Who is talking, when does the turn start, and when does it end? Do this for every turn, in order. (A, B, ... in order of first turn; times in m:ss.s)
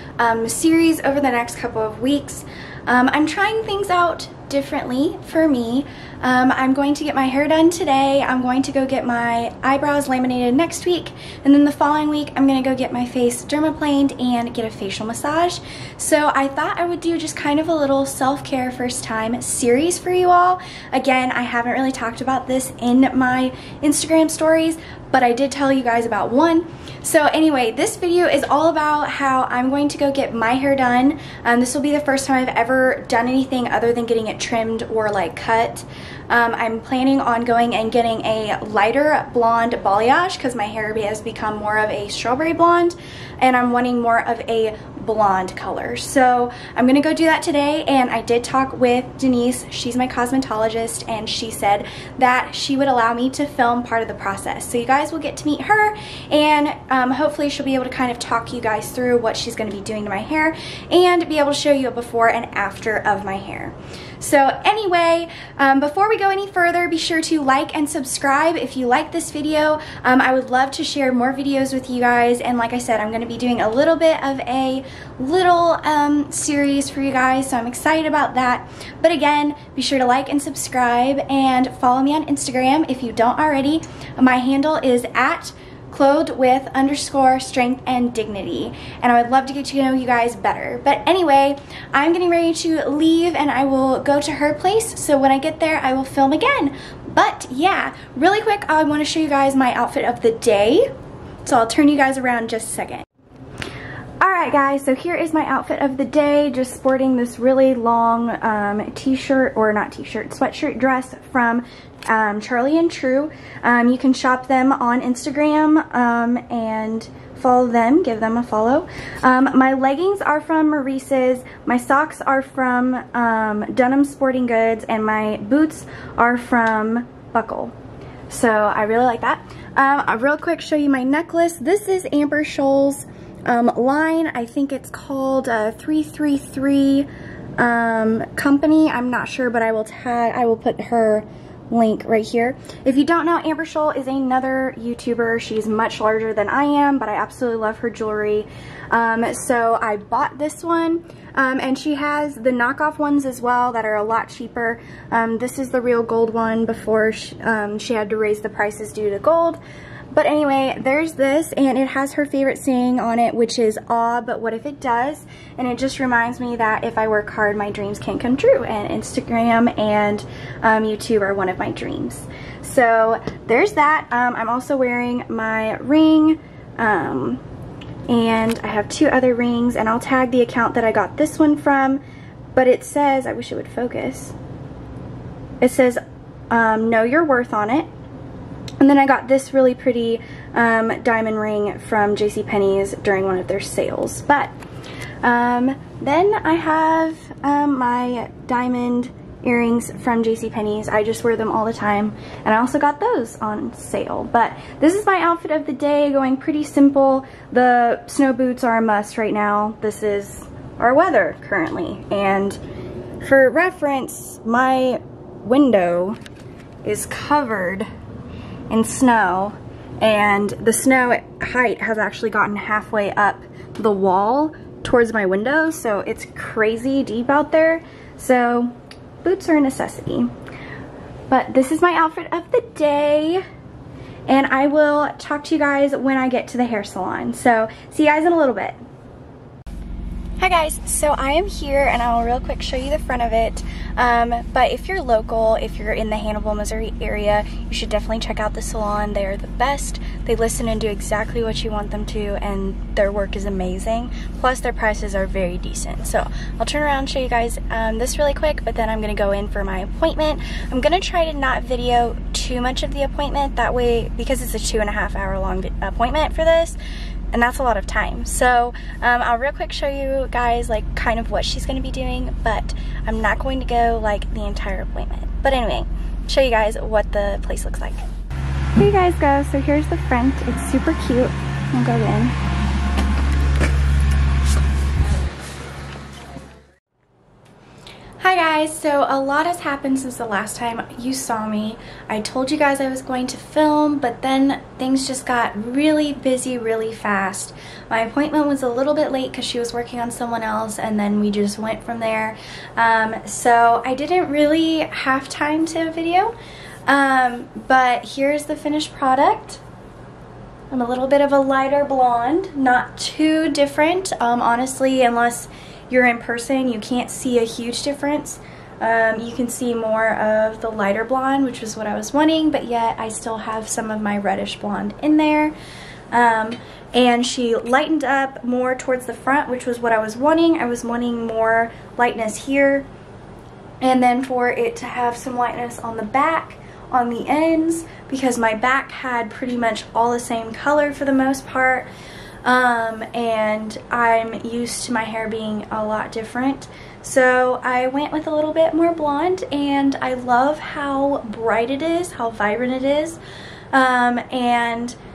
0:00.2-1:40.9 A
1:41.4-1:43.0 A
1:44.2-2:07.7 A
2:08.3-2:39.6 A
2:40.1-2:57.4 A
2:58.1-3:02.0 A
3:02.5-3:04.3 A
3:05.6-3:07.9 A
3:08.8-3:14.5 A
3:15.2-3:32.6 A
3:33.2-3:36.2 A
3:36.8-3:37.9 A
3:38.7-3:50.3 A
3:51.3-3:53.4 A
3:54.3-3:58.8 A
4:00.4-4:26.8 A
4:27.3-4:38.0 A
4:38.8-4:42.4 A
4:48.2-5:06.3 A
5:06.9-5:09.6 A
5:10.7-5:25.5 A
5:26.1-5:32.8 A
5:33.8-5:41.9 A
5:42.4-5:53.2 A
5:53.7-5:55.0 A